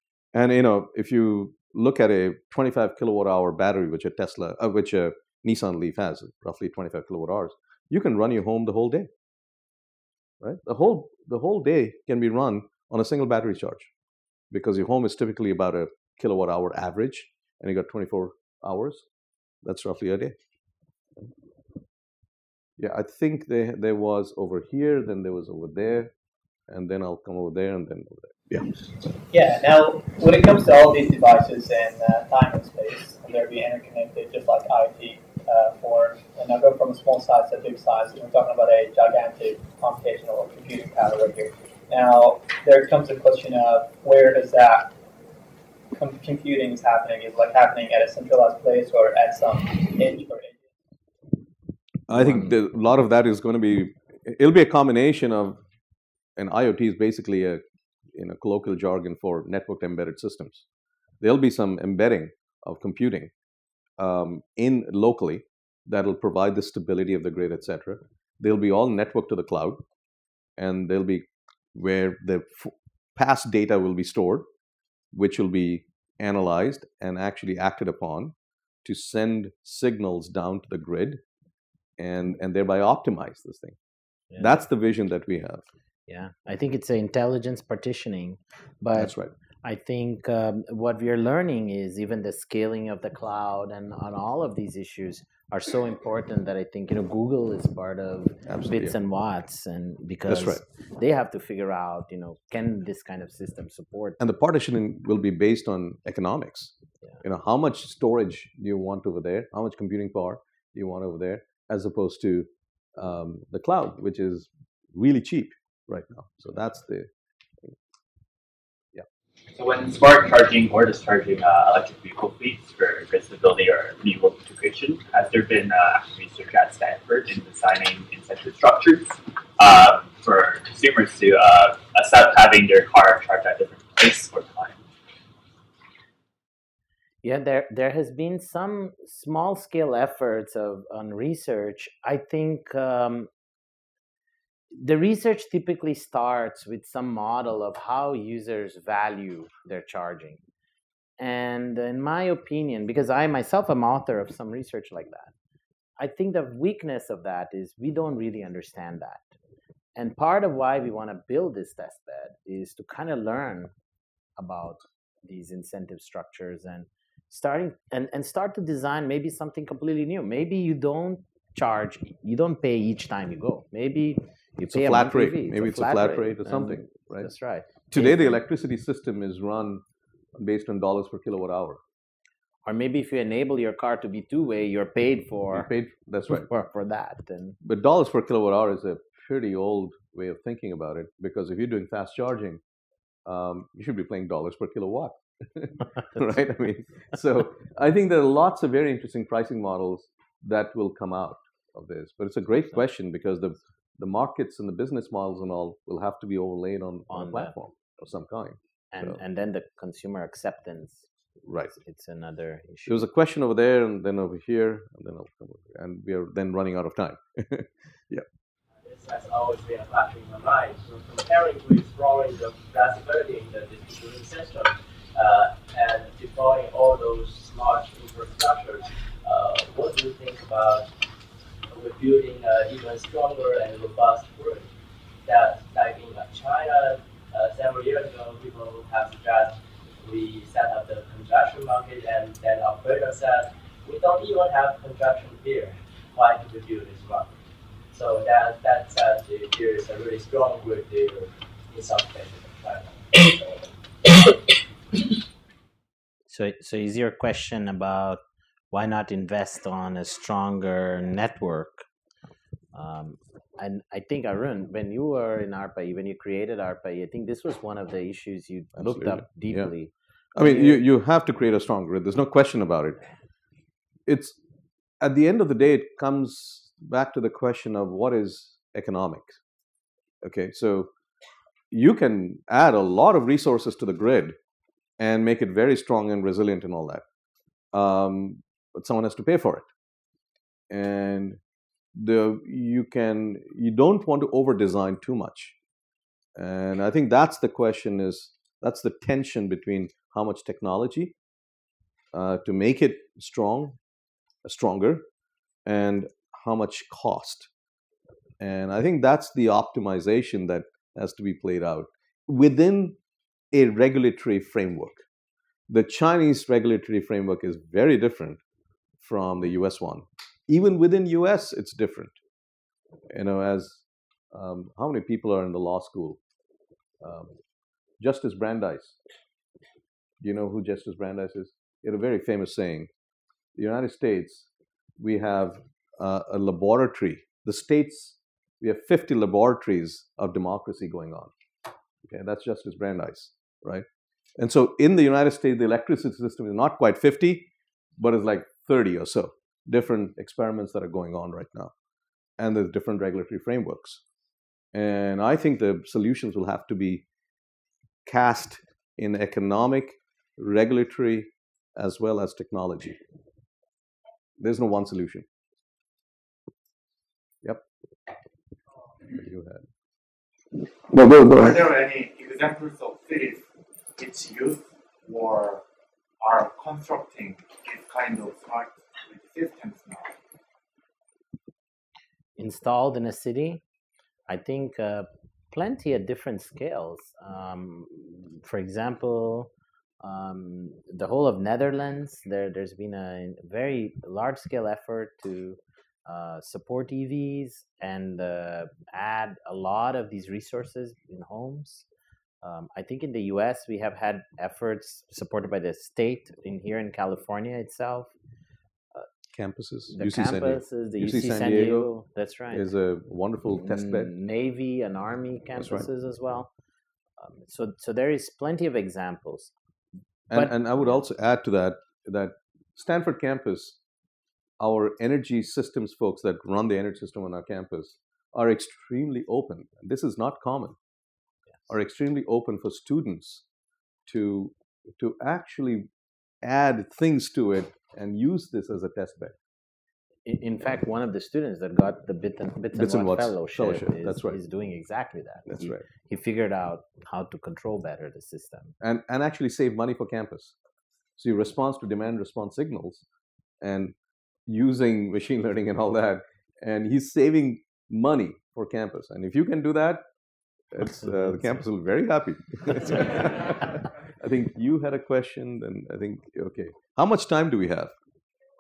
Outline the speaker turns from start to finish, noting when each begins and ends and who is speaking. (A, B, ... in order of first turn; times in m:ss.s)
0:00.3-0:09.1 A
0:10.4-0:13.9 A
0:14.5-0:19.1 A
0:19.6-0:20.4 A
0:22.8-0:26.1 A
0:26.7-0:28.7 A
0:29.3-0:44.9 B
0:46.0-0:50.6 B
0:52.1-0:55.6 A
0:56.4-0:57.6 A
0:58.2-1:00.6 A
1:01.2-1:03.3 A
1:04.0-1:09.8 A
1:10.6-1:14.5 A
1:15.1-1:21.2 A
1:22.0-1:23.8 A
1:24.3-1:24.6 C
1:24.4-1:25.6 A
1:26.1-1:44.2 C
1:28.9-1:29.3 A
1:38.5-1:39.0 A
1:40.3-1:40.6 A
1:44.2-1:57.1 A
1:59.5-2:14.8 D
2:17.2-2:23.3 C
2:24.7-2:30.4 C
2:31.2-2:35.3 C
2:36.0-2:39.2 C
2:40.0-2:43.7 C
2:44.4-2:58.4 C
2:54.7-2:57.3 A
2:57.9-2:59.8 A
3:00.4-3:01.8 A
3:02.6-3:05.7 C
3:05.5-3:06.5 A
3:06.3-3:07.6 C
3:07.6-3:12.6 A
3:13.3-3:29.2 A
3:27.1-3:27.5 C
3:28.9-3:31.1 C
3:31.5-3:31.7 A
3:31.7-3:33.0 C
3:32.9-3:38.2 A
3:38.8-3:50.9 E
3:51.7-3:54.7 E
3:55.2-4:07.4 E
4:07.9-4:13.7 E
4:16.3-4:21.8 C
4:22.7-4:30.8 C
4:28.8-4:29.7 A
4:30.4-4:33.0 A
4:34.1-4:34.4 A
4:35.0-4:39.4 A
4:40.2-4:40.9 A
4:41.7-4:44.4 A
4:45.0-4:47.0 A
4:47.7-4:49.7 A
4:50.7-4:51.4 A
4:52.0-4:55.6 A
4:56.4-5:01.2 A
5:02.1-5:03.8 A
5:04.4-5:05.1 A
5:05.7-5:07.5 A
5:08.4-5:13.0 A
5:13.5-5:15.0 A
5:15.7-5:18.4 A
5:19.0-5:22.2 A
5:23.1-5:26.2 A
5:27.0-5:27.3 A
5:28.0-5:29.0 A
5:30.2-5:32.9 A
5:33.6-5:34.5 A
5:35.0-5:41.3 A
5:42.0-5:43.8 A
5:44.4-5:51.7 A
5:52.4-5:54.0 A
5:54.7-5:57.0 A
5:58.1-6:03.0 A
6:04.4-6:05.2 A
6:09.1-6:09.7 A
6:10.9-6:13.4 F
6:14.0-6:15.6 F
6:16.2-6:20.2 F
6:22.4-6:23.6 C
6:24.3-6:29.5 C
6:30.0-6:41.9 C
6:42.4-6:48.1 C
6:49.3-6:51.9 A
6:49.9-6:52.7 C
6:52.5-6:54.1 A
6:53.6-6:56.5 C
6:55.6-6:55.9 A
6:57.2-6:59.5 C
7:00.3-7:03.8 A
7:00.3-7:01.0 C
7:04.6-7:10.8 A
7:11.7-7:13.4 A
7:14.1-7:15.9 A
7:16.4-7:19.4 A
7:20.3-7:28.7 C
7:22.7-7:24.4 A
7:25.5-7:25.8 A
7:28.8-7:30.5 A
7:31.2-7:33.0 A
7:33.6-7:33.9 A
7:34.5-7:40.0 A
7:40.7-7:47.9 A
7:40.8-7:41.4 C